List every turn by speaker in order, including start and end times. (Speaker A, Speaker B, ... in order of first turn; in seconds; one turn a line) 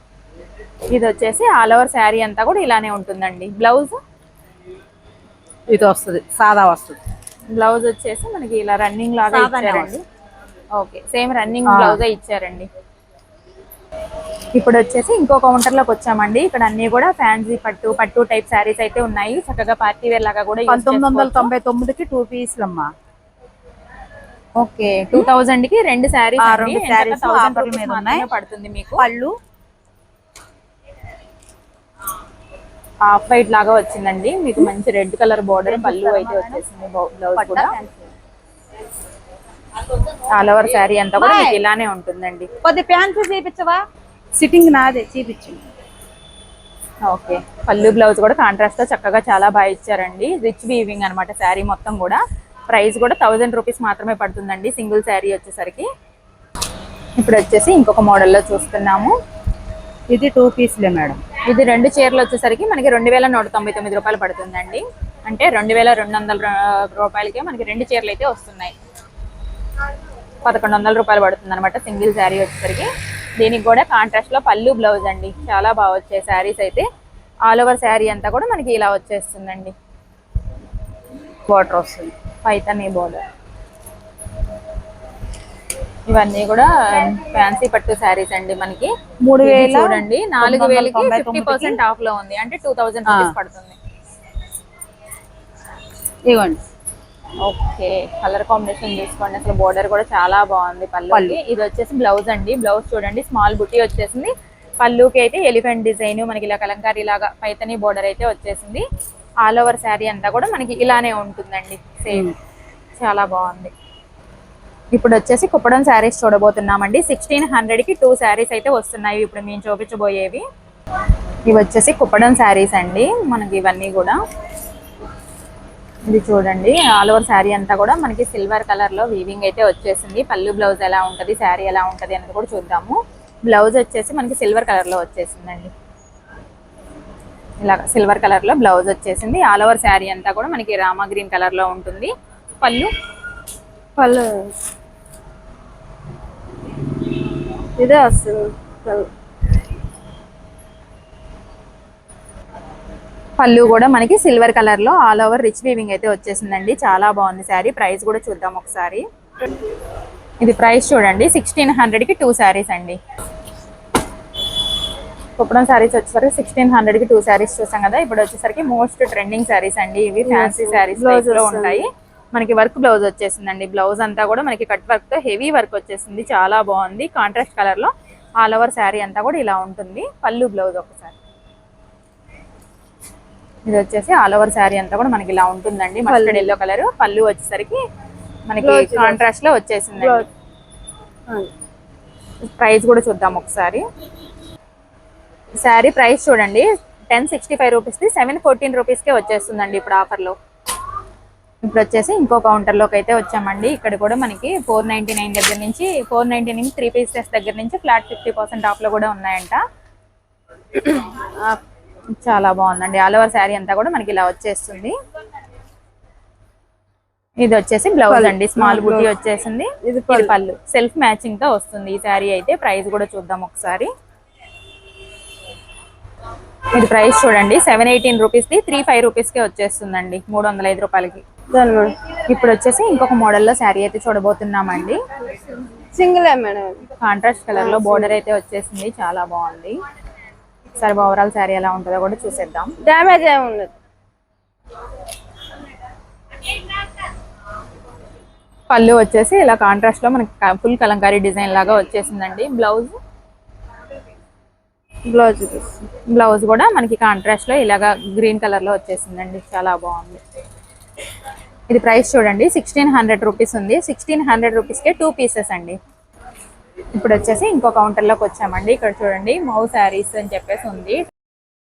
Speaker A: 0.9-4.0
Speaker B: 5.7-7.0
Speaker A: 7.5-10.0
Speaker B: 9.3-9.9
Speaker A: 10.8-12.7
Speaker B: 11.7-12.0
Speaker A: 14.5-21.5
Speaker B: 20.7-22.9
Speaker A: 24.6-29.0
Speaker B: 26.4-28.2
Speaker B: 29.0-29.3
Speaker A: 33.0-37.8
Speaker B: 35.6-36.6
Speaker B: 37.4-38.1
Speaker A: 40.3-42.5
Speaker B: 41.2-41.6
Speaker B: 42.6-43.8
Speaker B: 44.3-45.6
Speaker A: 47.0-55.9
Speaker A: 57.2-59.1
Speaker B: 60.1-61.2
Speaker A: 61.4-68.7
Speaker A: 70.4-76.9
Speaker A: 77.5-79.7
Speaker B: 81.5-82.1
Speaker A: 82.4-83.2
Speaker A: 86.1-88.9
Speaker B: 89.2-91.8
Speaker A: 89.4-93.8
Speaker B: 93.1-93.3
Speaker B: 96.2-96.6
Speaker A: 97.4-108.8
Speaker B: 101.1-101.4
Speaker A: 109.4-112.3
Speaker A: 113.0-113.7
Speaker A: 114.9-120.5
Speaker A: 121.5-124.2
Speaker A: 126.0-135.7
Speaker A: 137.6-142.9
Speaker B: 144.0-144.4
Speaker B: 147.8-149.1
Speaker A: 153.4-159.0
Speaker A: 160.4-163.0
Speaker A: 165.4-181.1
Speaker B: 170.3-171.8
Speaker A: 183.7-187.8
Speaker B: 186.1-186.5
Speaker A: 188.5-190.2
Speaker B: 188.6-189.2
Speaker A: 192.6-193.8
Speaker A: 195.6-200.3
Speaker A: 201.6-209.6
Speaker A: 212.2-214.9
Speaker A: 217.4-223.9
Speaker B: 218.1-219.1
Speaker B: 219.8-220.3
Speaker A: 226.7-231.2
Speaker B: 231.5-231.9
Speaker A: 232.3-235.0
Speaker B: 235.9-236.7
Speaker A: 237.0-239.8
Speaker B: 237.6-238.1
Speaker A: 240.8-242.8
Speaker B: 242.8-243.7
Speaker A: 248.7-252.9
Speaker B: 255.1-255.7
Speaker A: 256.1-260.2
Speaker A: 261.7-265.8
Speaker A: 266.9-271.0